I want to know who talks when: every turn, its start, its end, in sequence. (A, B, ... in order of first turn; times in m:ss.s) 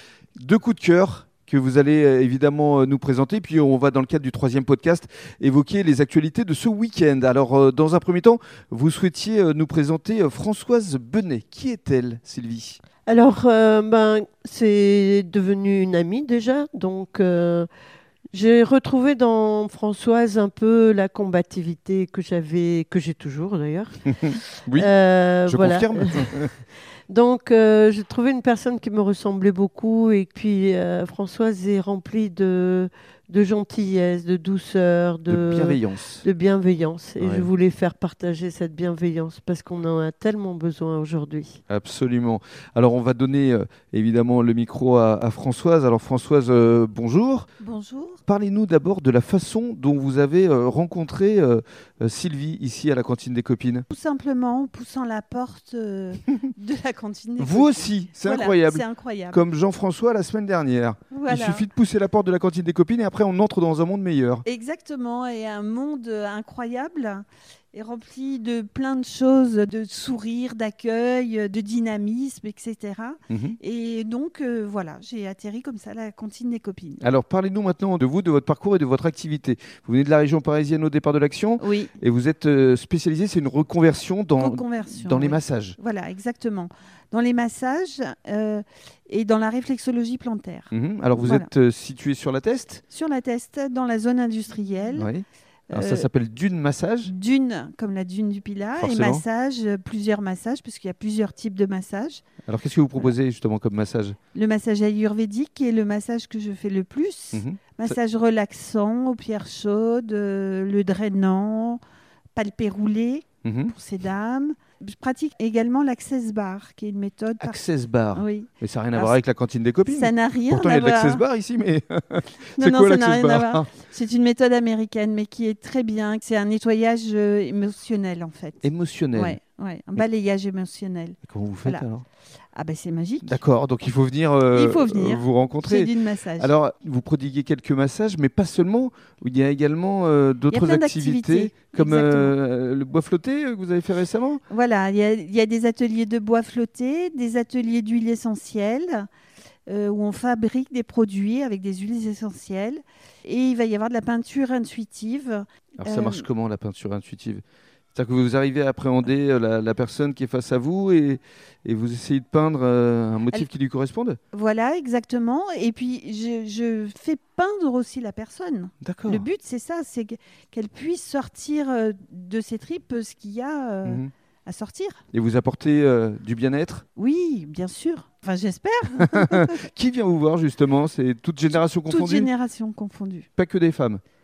0:00.4-0:12.8 A
0:13.1-0:17.7 B
0:18.3-0:26.5 B
0:24.2-0:24.9 A
0:25.5-0:26.5 A
0:27.1-0:41.6 B
0:35.3-0:36.2 A
0:37.2-0:37.5 A
0:41.7-0:47.5 A
0:47.6-0:48.2 C
0:48.3-0:53.8 A
0:53.9-0:59.4 C
0:57.4-1:04.4 A
1:01.1-1:01.7 C
1:04.5-1:17.1 C
1:13.3-1:13.6 A
1:17.0-1:25.8 A
1:21.6-1:21.9 C
1:24.4-1:31.5 C
1:30.7-1:32.8 A
1:32.9-1:35.1 C
1:35.0-1:37.1 A
1:35.7-1:36.1 C
1:37.0-1:42.2 C
1:38.8-1:39.2 A
1:42.5-1:44.2 A
1:44.4-1:51.8 C
1:47.3-1:47.9 A
1:52.4-1:57.6 C
1:53.4-1:53.7 A
1:57.4-2:03.7 A
1:58.1-1:59.2 C
1:59.9-2:01.2 C
2:02.6-2:11.8 C
2:08.6-2:09.4 A
2:11.2-2:12.0 A
2:12.6-2:13.4 C
2:13.2-2:24.4 A
2:14.5-2:16.5 C
2:20.5-2:22.4 C
2:24.5-2:29.1 C
2:29.7-2:36.3 C
2:35.8-2:37.4 A
2:37.9-2:44.2 A
2:44.3-2:55.0 C
2:48.8-2:49.3 A
2:53.8-2:54.1 A
2:55.1-2:56.8 A
2:57.0-2:59.6 C
2:59.0-3:02.3 A
3:01.9-3:03.3 C
3:03.4-3:04.0 A